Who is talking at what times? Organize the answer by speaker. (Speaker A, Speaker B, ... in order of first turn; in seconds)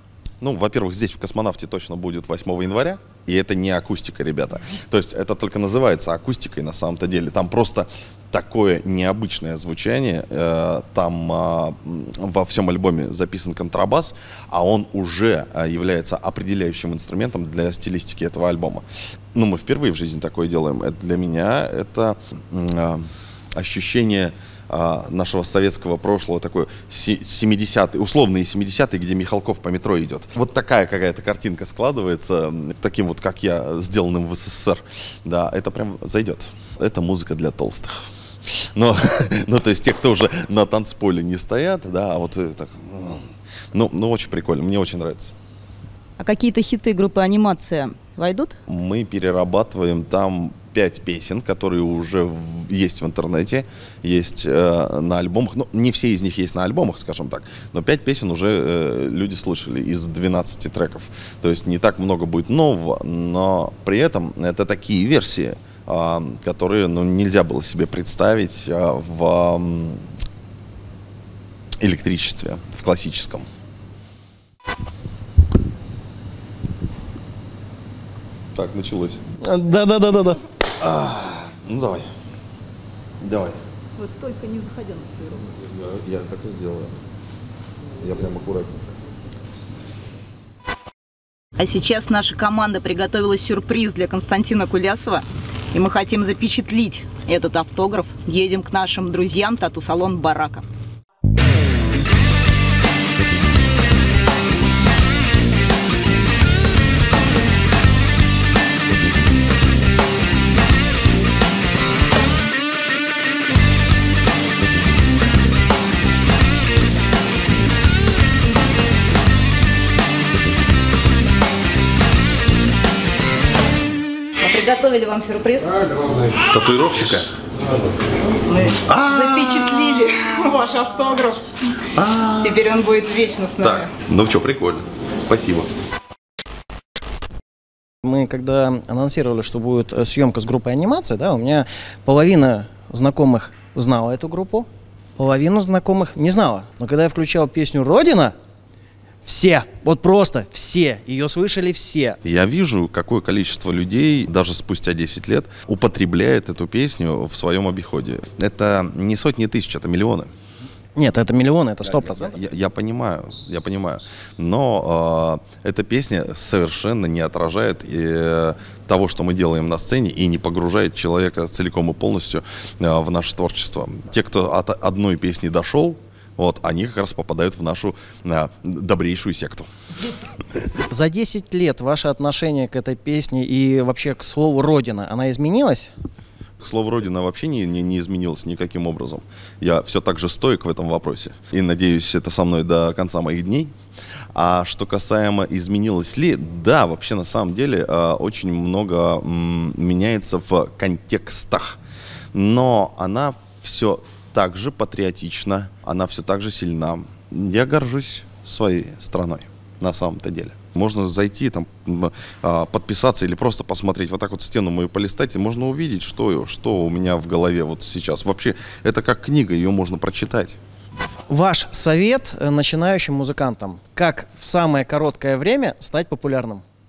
Speaker A: 0.4-45.3, 48.7-70.0, 71.8-73.5, 78.5-79.2, 80.8-82.1, 83.2-83.6, 85.5-86.9, 88.0-88.9, 126.4-127.3, 128.8-129.8, 132.0-132.6, 133.6-135.7, 152.2-160.3, 162.2-179.7, 186.6-193.7, 194.3-201.8, 202.3-220.6
Speaker B: 46.2-48.6, 84.0-85.4, 91.6-100.6, 124.4-126.0, 128.4-131.4, 132.4-133.9
Speaker C: 79.4-80.4, 138.0-148.3, 149.2-152.2, 161.0-162.4, 180.9-185.9, 221.3-226.6